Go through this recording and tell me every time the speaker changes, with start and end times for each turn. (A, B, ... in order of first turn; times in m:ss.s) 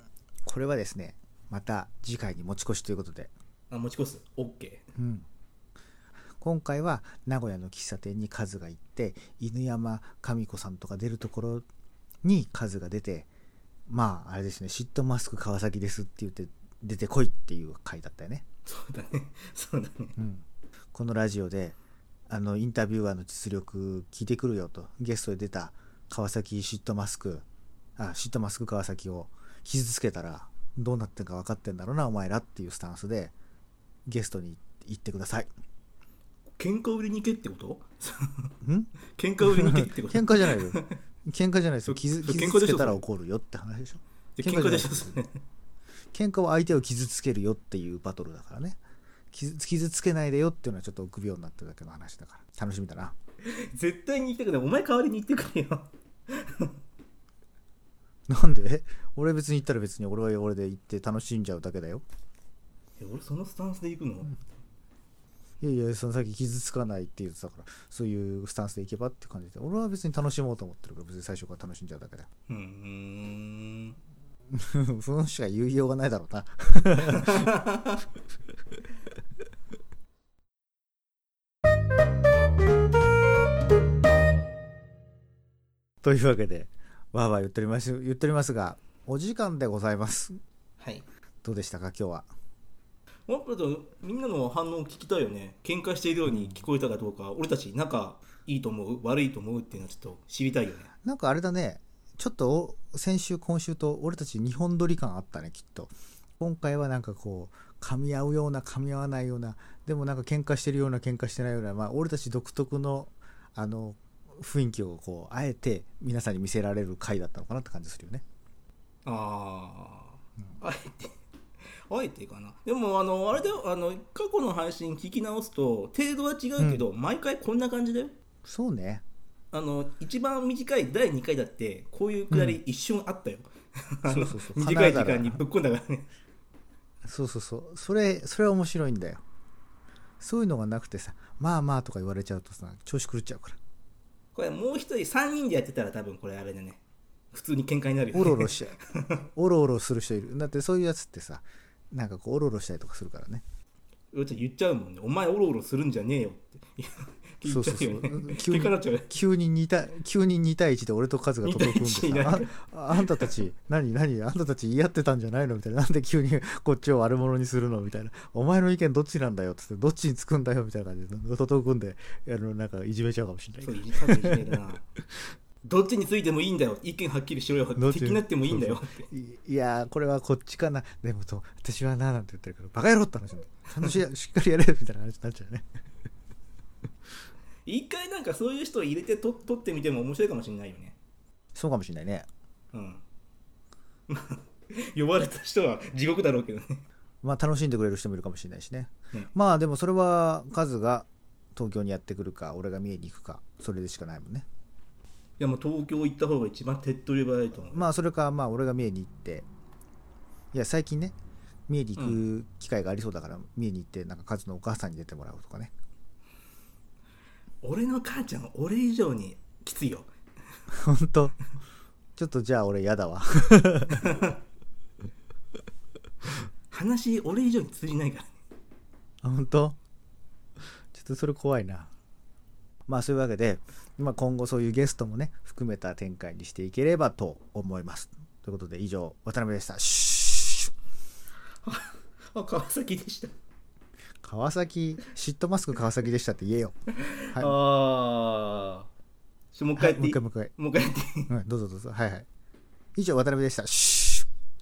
0:00.4-0:03.3 A
0:03.7-0:04.8 B
0:05.0-0:05.3 A
0:06.4-0:11.7 A
0:12.2-0:13.3 A
0:13.9-0:18.4 A
0:18.7-0:20.2 B
0:20.2-0:21.8 A
0:22.3-0:27.4 A
0:28.0-0:33.3 A
0:34.1-0:35.5 A
0:36.6-0:38.5 B
0:38.6-0:45.2 A
0:39.1-0:41.0 B
0:41.9-0:43.0 B
0:44.4-0:45.4 B
0:46.1-0:48.8 A
0:49.3-0:53.2 A
0:53.4-0:56.8 B
0:58.3-1:02.0 A
1:03.0-1:04.4 B
1:05.6-1:12.3 A
1:12.5-1:14.0 B
1:14.5-1:17.5 A
1:17.0-1:18.0 B
1:26.0-1:30.4 A
1:30.8-1:31.0 B
1:31.4-1:32.3 A
1:33.3-1:40.9 B
1:36.3-1:36.6 A
1:41.0-1:58.2 A
1:59.1-2:01.2 B
2:01.9-2:08.2 B
2:06.6-2:06.8 A
2:08.4-2:09.0 A
2:09.5-2:16.1 B
2:12.3-2:12.6 A
2:14.1-2:15.4 A
2:17.0-2:19.2 A
2:20.2-2:23.6 A
2:24.4-2:26.8 B
2:27.3-2:29.2 B
2:28.1-2:28.8 A
2:29.4-2:33.4 A
2:34.1-2:39.1 B
2:37.4-2:54.6 A
2:41.4-2:43.4 B
2:53.6-2:54.8 B
2:55.6-2:59.1 B
2:57.8-3:05.7 A
3:07.7-3:11.0 B
3:11.6-3:12.3 A
3:12.7-3:13.0 B
3:14.1-3:16.8 B
3:17.2-3:24.5 A
3:25.4-3:27.9 B
3:27.7-3:29.5 A
3:30.5-3:31.2 A
3:31.7-3:35.7 A
3:32.0-3:32.2 B
3:37.6-3:40.1 B
3:40.7-3:41.4 A
3:42.2-3:44.2 A
3:44.0-3:44.3 B
3:46.7-3:48.4 B
3:49.2-3:49.8 A
3:50.9-3:51.9 A
3:52.9-4:00.7 A
4:01.6-4:03.3 B
4:04.2-4:06.8 A
4:07.0-4:08.9 B
4:09.5-4:11.3 B
4:09.8-4:10.5 A
4:11.3-4:12.3 A
4:13.0-4:14.3 A